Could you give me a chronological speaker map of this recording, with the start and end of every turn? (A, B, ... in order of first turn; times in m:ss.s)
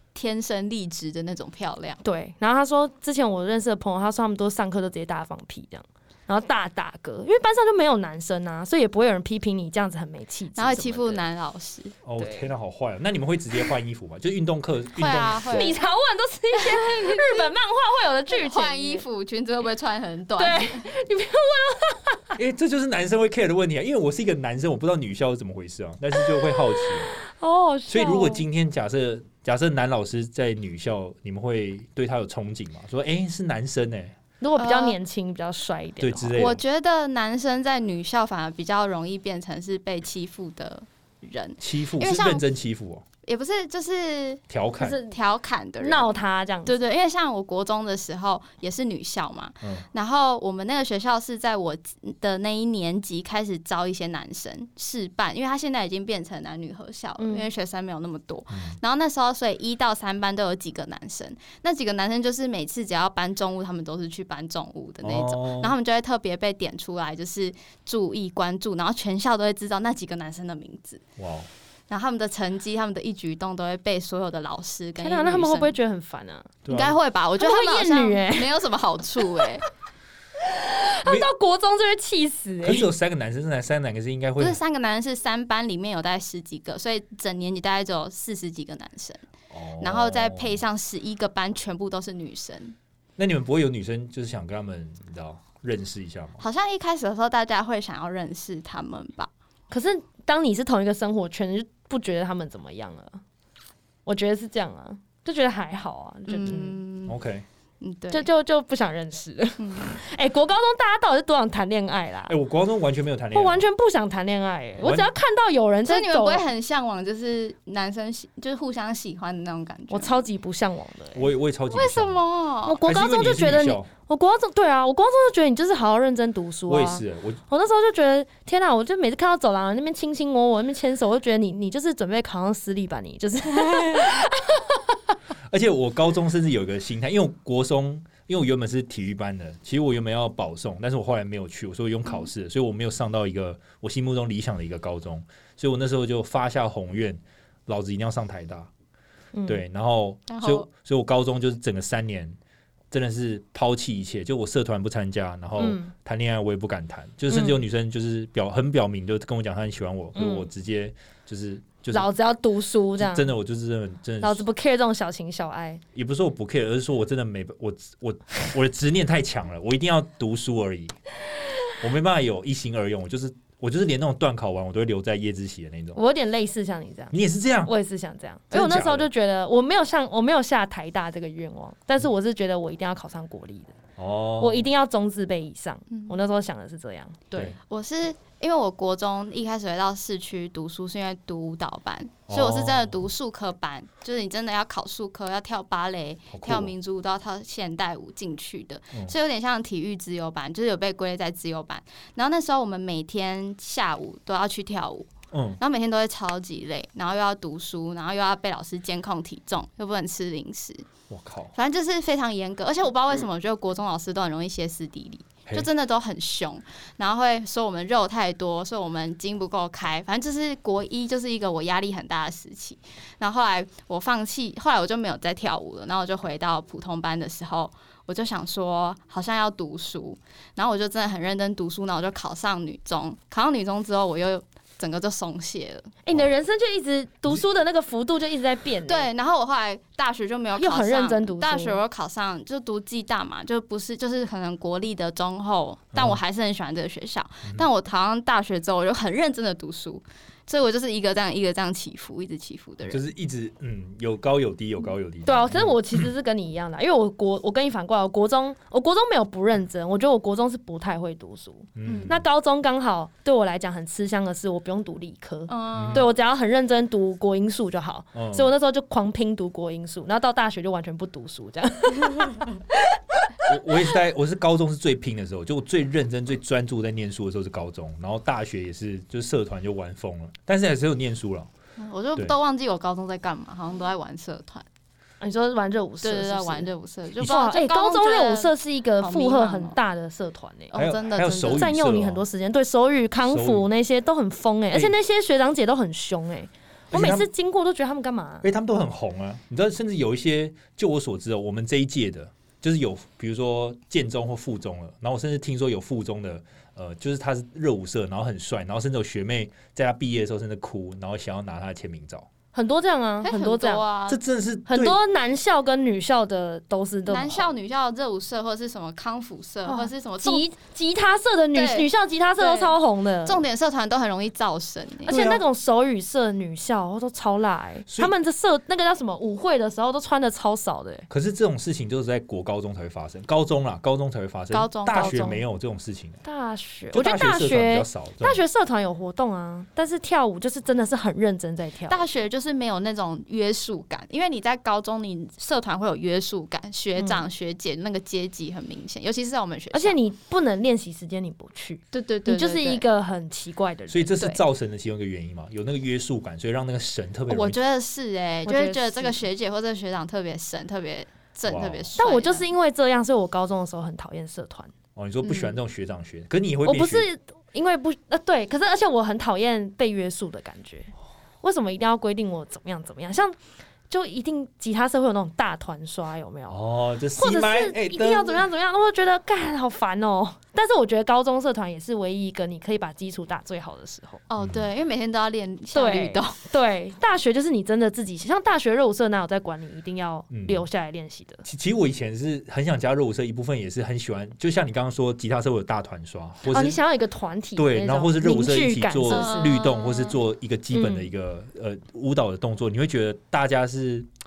0:00.2-0:02.0 A
0:02.0-0:11.2 B
0:10.6-0:12.0 A
0:12.0-0:15.8 C
0:12.2-0:12.5 B
0:15.0-0:15.8 A
0:15.5-0:19.0 B
0:16.6-0:17.5 A
0:18.3-0:20.8 A
0:20.4-0:22.4 B
0:22.4-0:27.2 C
0:26.5-0:28.4 B
0:27.9-0:34.2 C
0:34.4-0:36.4 B
0:34.6-0:35.0 A
0:36.0-0:36.6 C
0:36.4-0:42.4 A
0:41.6-0:43.0 C
0:43.2-0:46.1 A
0:44.5-0:45.0 C
0:44.8-0:45.2 B
0:45.8-0:46.8 B
0:46.7-1:11.0 A
0:57.2-0:57.5 B
0:58.5-0:58.8 C
1:05.0-1:05.7 C
1:11.2-1:11.5 C
1:11.9-1:15.7 A
1:15.0-1:16.5 B
1:16.6-1:17.0 C
1:16.7-1:19.7 A
1:17.4-1:18.5 B
1:20.4-1:22.9 B
1:22.6-1:24.6 C
1:24.4-1:29.2 A
1:29.5-1:30.6 C
1:29.8-1:32.8 A
1:33.2-1:36.4 C
1:36.4-1:39.3 A
1:39.7-1:43.2 B
1:44.0-1:46.8 B
1:46.3-1:47.2 A
1:47.1-1:47.5 C
1:47.8-1:48.3 A
1:48.1-1:52.4 B
1:49.6-1:50.0 A
1:52.3-1:53.6 C
1:53.3-1:56.5 B
1:54.8-1:55.1 C
1:55.9-2:00.3 A
1:59.9-2:01.3 B
2:01.2-2:02.2 C
2:01.7-2:02.8 A
2:02.6-2:14.6 B
2:02.8-2:03.9 C
2:06.7-2:07.4 C
2:15.5-2:28.7 C
2:29.4-2:29.6 B
2:29.5-2:32.4 C
2:30.3-2:30.7 A
2:32.9-2:42.1 C
2:35.6-2:35.9 B
2:37.3-2:37.6 B
2:40.2-2:40.5 B
2:41.9-2:43.4 B
2:43.0-2:44.4 C
2:44.2-2:45.8 B
2:46.0-2:51.0 C
2:51.8-2:56.0 C
2:56.0-3:03.8 B
2:57.1-2:57.7 C
2:58.5-2:59.1 C
3:04.0-3:04.7 C
3:04.4-3:07.6 B
3:07.7-3:30.9 A
3:12.3-3:13.0 C
3:16.3-3:16.7 C
3:25.3-3:25.6 C
3:31.1-3:31.5 C
3:31.6-3:56.0 A
3:56.0-3:59.1 B
3:58.9-4:13.0 A
4:00.6-4:01.8 B
4:05.9-4:06.2 C
4:12.9-4:16.1 C
4:15.2-4:32.6 B
4:21.8-4:22.2 C
4:21.8-4:22.1 A
4:25.5-4:26.1 A
4:25.7-4:26.0 C
4:28.2-4:28.5 C
4:33.5-4:41.5 C
4:41.8-4:44.6 A
4:45.2-4:46.7 B
4:46.0-4:49.8 A
4:47.2-4:50.8 B
4:50.7-4:51.7 A
4:50.8-4:52.2 C
4:51.5-4:58.4 B
4:53.3-4:53.7 C
4:56.9-4:57.3 C
4:58.4-5:12.3 C
5:12.5-5:13.8 B
5:13.2-5:14.2 A
5:14.1-5:15.0 C
5:14.7-5:17.5 B
5:17.1-5:20.4 A
5:19.7-5:23.4 B
5:21.5-5:25.4 A
5:25.1-5:31.1 B
5:25.1-5:25.4 C
5:27.9-5:28.1 C
5:31.1-5:36.2 C
5:34.5-5:35.2 A
5:34.9-5:35.4 B
5:36.2-5:42.0 B
5:36.9-5:38.4 C
5:41.9-5:50.0 A
5:47.0-5:47.2 B
5:49.7-5:54.2 B
5:51.9-5:52.8 A
5:53.9-5:57.6 C
5:57.3-6:02.5 A
5:58.5-5:59.2 B
6:01.5-6:01.9 C
6:02.0-6:04.7 B
6:05.0-6:07.1 C
6:06.6-6:13.4 B
6:13.9-6:16.6 B
6:16.5-6:18.4 C
6:17.2-6:24.2 B
6:24.3-6:26.4 A
6:25.7-6:31.4 B
6:30.3-6:30.6 C
6:31.4-6:36.8 C
6:36.4-6:39.7 B
6:37.6-6:44.1 C
6:39.1-6:40.2 A
6:40.7-6:41.1 B